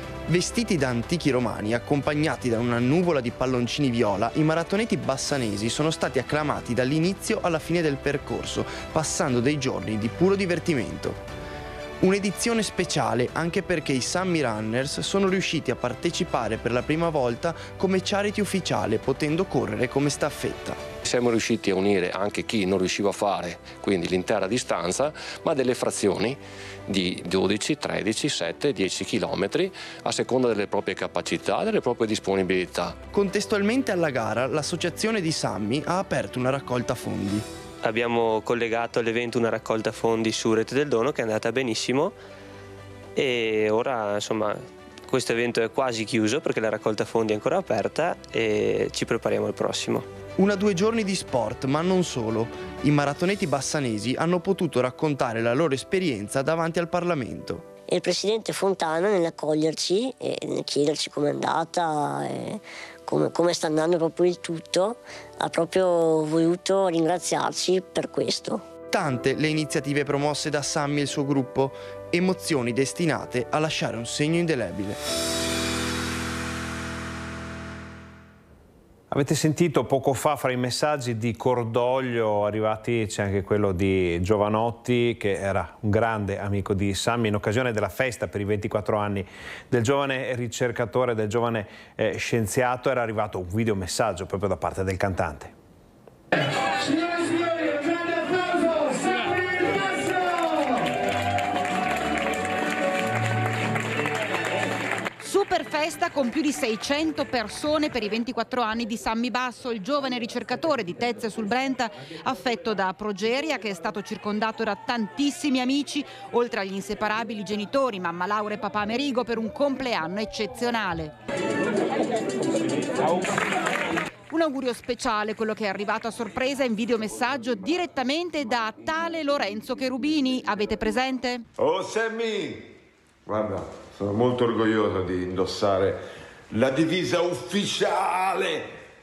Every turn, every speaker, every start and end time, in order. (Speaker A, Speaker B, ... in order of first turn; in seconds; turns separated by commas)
Speaker A: 0.3-11.2, Speaker A: 12.0-20.8, Speaker B: 21.0-33.0, Speaker A: 33.1-37.5, Speaker C: 37.8-42.2, Speaker C: 43.2-50.1, Speaker A: 50.4-57.6, Speaker D: 57.9-68.7, Speaker A: 68.9-75.0, Speaker E: 79.1-95.5, Speaker F: 105.2-121.2, Speaker F: 124.3-131.4, Speaker G: 131.6-138.7